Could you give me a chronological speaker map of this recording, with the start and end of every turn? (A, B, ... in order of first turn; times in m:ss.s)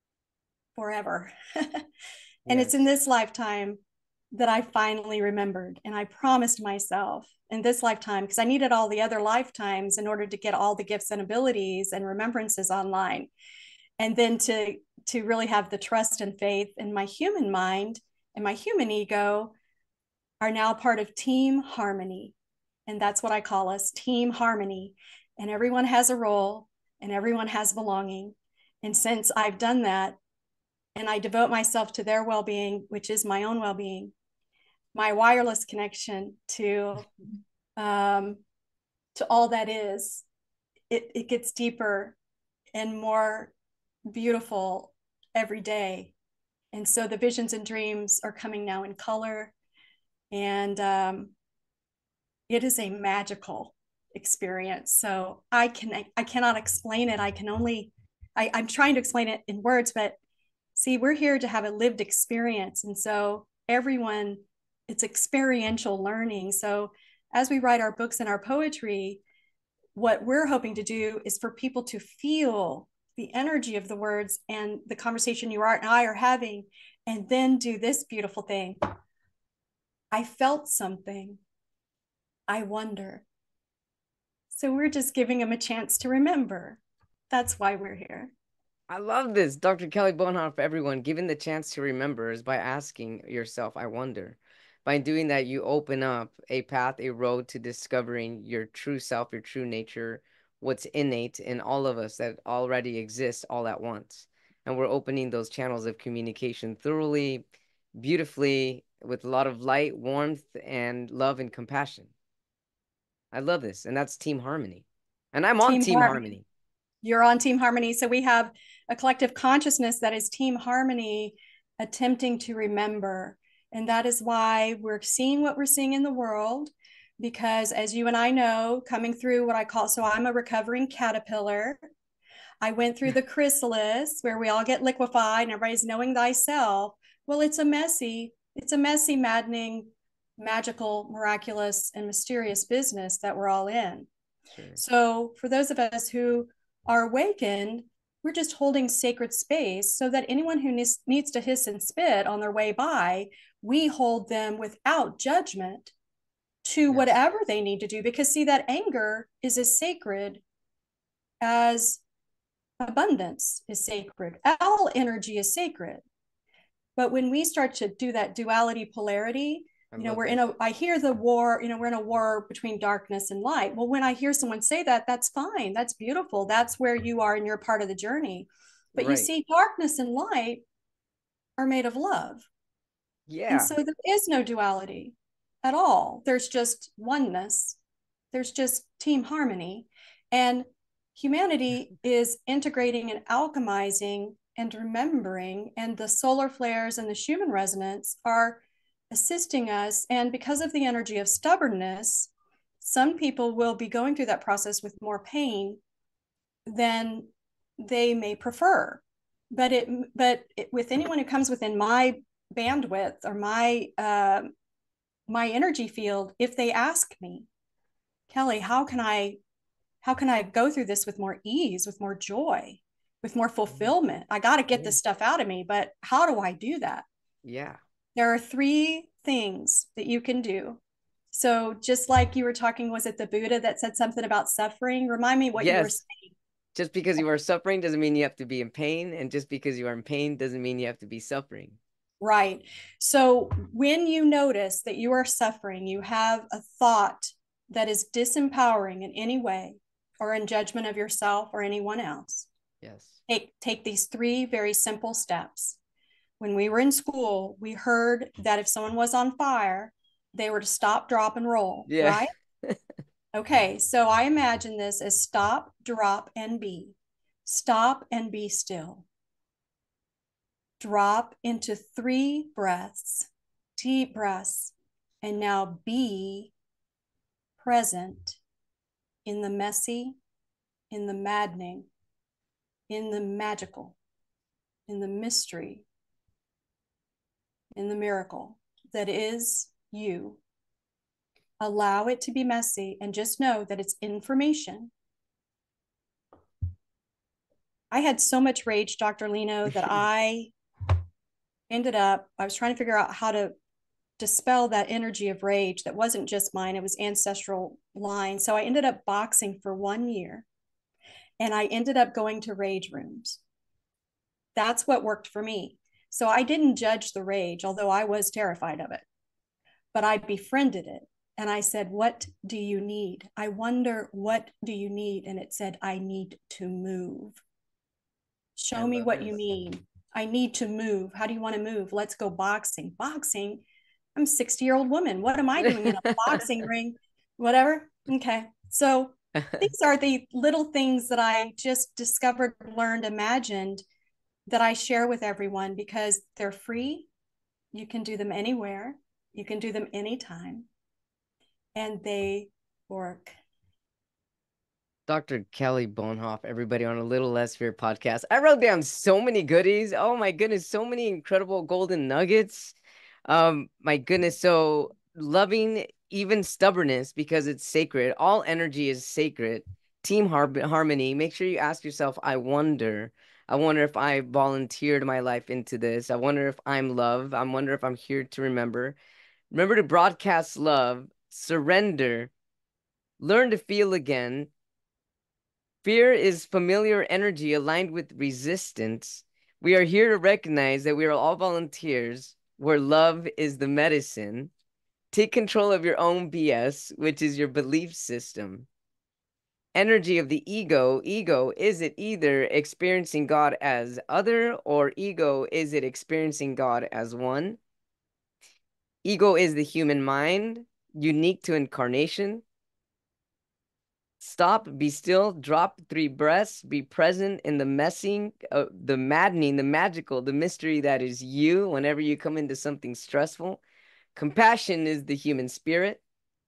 0:00.7-0:01.8 A
0:02.5-0:03.8 A
0:04.3-0:13.3 A
0:14.0-0:19.5 A
0:20.4-0:22.3 A
0:22.9-0:30.2 A
0:30.9-0:34.1 A
0:34.9-0:37.1 A
0:37.8-0:38.4 A
0:39.1-0:40.2 A
0:40.9-0:42.2 A
0:42.7-0:43.5 A
0:44.1-0:46.1 A
0:46.7-0:49.5 A
0:50.3-0:51.3 A
0:52.5-1:00.2 A
1:00.8-1:09.2 A
1:09.9-1:18.8 A
1:20.1-1:21.4 A
1:22.5-1:23.2 A
1:24.5-1:26.8 A
1:27.3-1:28.3 A
1:28.9-1:52.1 B
1:53.3-1:56.4 B
1:55.6-1:56.2 A
1:57.0-2:11.8 A
2:12.6-2:24.1 A
2:24.7-2:35.9 A
2:36.6-2:40.4 A
2:36.9-2:37.2 B
2:41.4-2:42.0 A
2:42.8-2:46.0 A
2:47.0-3:00.6 A
2:49.9-2:50.4 B
2:59.0-2:59.3 B
3:01.6-3:02.4 A
3:03.3-3:03.7 B
3:03.5-3:07.8 A
3:08.3-3:22.3 A
3:22.8-3:25.8 A
3:26.6-3:27.3 A
3:27.8-3:34.5 A
3:35.3-3:37.5 A
3:38.3-3:39.4 A
3:40.0-3:47.0 A
3:47.4-3:47.8 B
3:48.1-3:50.8 A
3:51.3-3:56.3 A
3:55.6-3:56.0 B
3:56.7-4:01.8 B
4:02.2-4:12.5 A
4:12.8-4:13.2 B
4:13.3-4:15.8 A
4:16.4-4:22.3 A
4:21.9-4:22.8 B
4:23.3-4:26.9 A
4:27.4-4:29.0 A
4:30.8-4:36.5 A
4:37.6-4:38.4 A
4:39.2-4:40.2 A
4:40.9-4:41.9 A
4:42.9-4:44.0 A
4:44.9-4:45.8 A
4:47.8-4:50.4 A
4:51.6-4:54.9 A
4:57.9-5:00.5 A
5:01.7-5:03.5 A
5:04.2-5:10.4 A
5:11.4-5:13.4 A
5:14.5-5:19.0 A
5:19.9-5:27.4 A
5:28.6-5:33.6 A
5:28.8-5:29.4 B
5:34.1-5:43.8 A
5:44.5-5:47.1 A
5:47.7-5:50.7 A
5:51.7-5:53.3 A
5:55.1-6:02.8 B
6:03.3-6:19.0 B
6:19.5-6:22.3 B
6:23.2-6:24.5 B
6:25.8-6:34.5 B
6:35.1-6:38.7 B
6:39.7-6:47.6 B
6:49.0-6:52.4 B
6:54.2-7:03.6 B
7:04.1-7:06.0 B